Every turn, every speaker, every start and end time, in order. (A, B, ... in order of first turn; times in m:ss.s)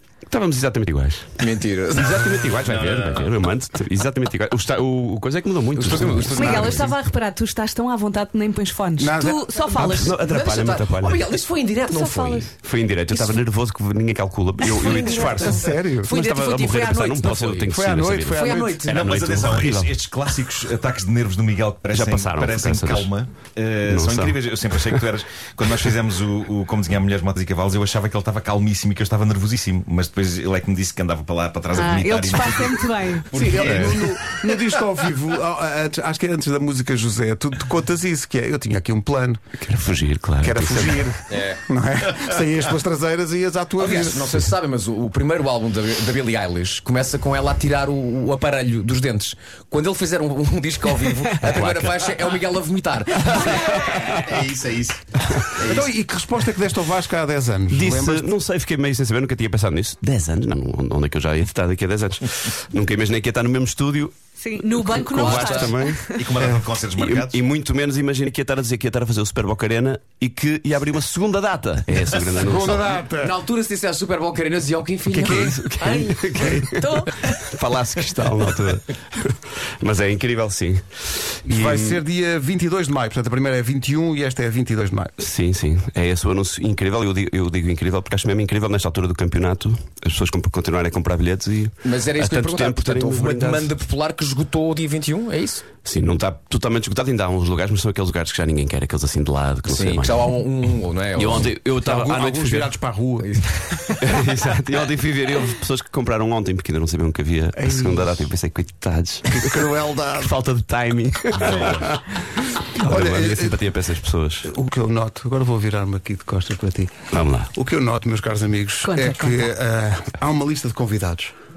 0:00.3-0:06.9 A
0:01.4-0:02.4 B
0:02.6-0:03.4 C
0:05.8-0:06.9 B
0:06.4-0:10.1 D
0:09.0-0:10.1 E
0:09.8-0:12.5 B
0:10.0-0:11.2 A
0:11.9-0:12.5 D
0:12.6-0:20.0 A
0:13.1-0:13.4 D
0:14.6-0:17.7 B
0:15.4-0:16.1 E
0:17.7-0:18.9 E
0:18.3-0:19.3 B
0:18.8-0:34.4 C
0:21.9-0:23.1 A
0:23.8-0:25.1 A
0:31.7-0:33.6 D
0:33.3-0:39.4 E
0:39.6-0:41.1 A
0:40.4-0:44.5 E
0:41.3-0:41.6 B
0:43.8-0:54.2 B
0:51.5-0:51.9 E
0:54.0-0:55.9 C
0:55.6-0:58.3 E
0:57.7-1:06.2 A
1:04.4-1:06.4 D
1:05.2-1:05.8 B
1:06.1-1:07.4 C
1:07.0-1:13.0 A
1:12.4-1:13.4 E
1:13.2-1:17.1 B
1:15.1-1:16.7 E
1:15.2-1:22.0 A
1:16.8-1:17.3 D
1:21.5-1:25.2 E
1:25.2-1:33.7 A
1:31.8-1:35.7 B
1:35.8-1:40.3 A
1:39.7-1:41.6 B
1:41.2-1:42.7 A
1:41.8-1:43.9 E
1:43.2-1:44.2 B
1:44.0-1:54.5 A
1:47.6-1:48.3 E
1:49.3-1:50.4 E
1:51.5-1:51.9 E
1:52.8-1:53.6 E
1:54.4-2:01.4 E
1:57.1-1:57.5 A
1:58.8-1:59.4 D